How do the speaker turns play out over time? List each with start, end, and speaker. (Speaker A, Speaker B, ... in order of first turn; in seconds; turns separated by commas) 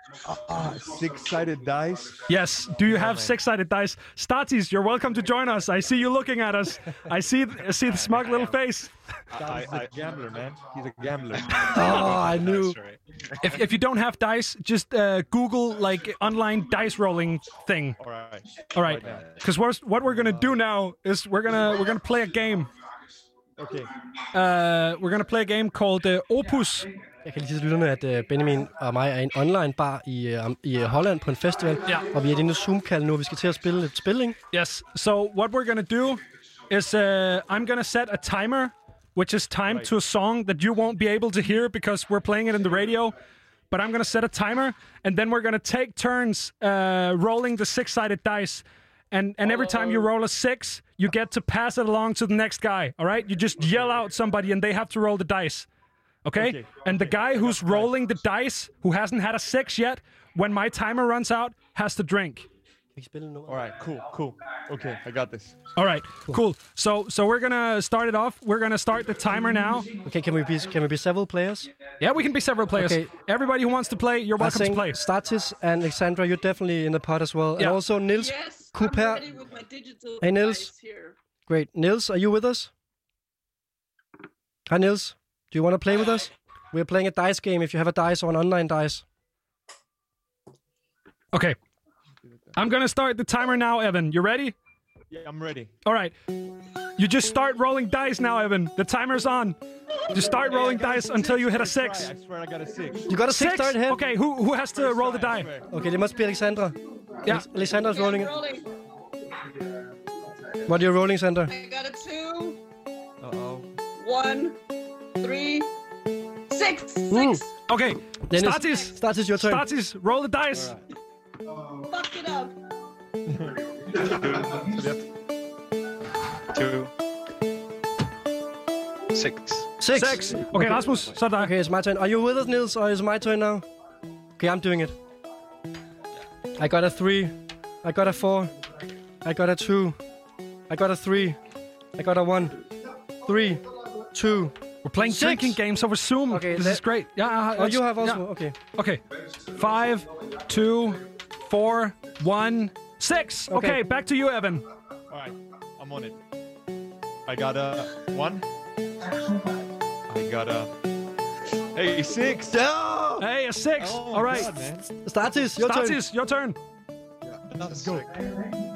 Speaker A: 0.2-2.2, Speaker B: 2.3-8.9, Speaker A: 2.8-3.4, Speaker C: 7.9-8.5, Speaker A: 9.3-11.9, Speaker C: 11.6-13.0, Speaker D: 11.7-12.8, Speaker B: 13.4-18.0, Speaker A: 18.0-19.3, Speaker B: 18.7-22.7, Speaker A: 20.0-20.6, Speaker A: 23.6-23.9, Speaker B: 24.3-26.9, Speaker D: 27.2-34.4, Speaker B: 34.5-43.1, Speaker A: 39.6-39.9, Speaker B: 43.7-55.7, Speaker A: 53.6-53.9, Speaker B: 56.2-62.5, Speaker A: 56.4-58.0, Speaker D: 62.9-63.7, Speaker A: 63.5-65.6, Speaker B: 65.8-69.9, Speaker D: 70.0-71.7, Speaker B: 72.0-75.0, Speaker D: 72.7-73.1, Speaker D: 74.4-79.3, Speaker E: 78.1-81.2, Speaker D: 80.2-80.7, Speaker D: 81.5-82.7, Speaker D: 84.7-89.0, Speaker B: 92.5-94.5, Speaker A: 95.1-95.7, Speaker B: 95.8-96.1, Speaker B: 97.0-99.6, Speaker B: 100.1-102.1, Speaker A: 100.2-103.1, Speaker D: 103.1-104.0, Speaker B: 103.3-105.5, Speaker A: 104.7-105.7, Speaker D: 105.7-108.3, Speaker E: 107.6-108.7, Speaker D: 110.7-111.5, Speaker E: 111.5-112.6, Speaker A: 113.2-113.7, Speaker E: 114.0-114.6, Speaker E: 115.2-115.7, Speaker E: 116.5-117.5, Speaker D: 117.1-117.4, Speaker B: 117.7-120.8, Speaker D: 118.3-119.7, Speaker E: 121.9-122.5, Speaker A: 123.3-125.0, Speaker C: 126.5-126.9, Speaker C: 129.1-129.8, Speaker D: 129.8-133.7, Speaker B: 129.9-131.5, Speaker D: 134.4-134.9, Speaker D: 136.6-138.5, Speaker D: 139.2-140.0, Speaker D: 140.7-141.4, Speaker D: 141.9-142.6, Speaker D: 143.2-145.6, Speaker B: 144.8-149.0, Speaker D: 146.3-146.8, Speaker D: 147.4-148.6, Speaker B: 149.5-154.6, Speaker D: 153.5-153.8, Speaker A: 155.1-156.2, Speaker A: 157.2-158.4, Speaker A: 160.1-160.7, Speaker A: 161.7-163.2, Speaker B: 163.2-164.6, Speaker A: 163.8-164.9, Speaker D: 165.0-166.0, Speaker B: 165.6-166.6, Speaker A: 167.5-168.2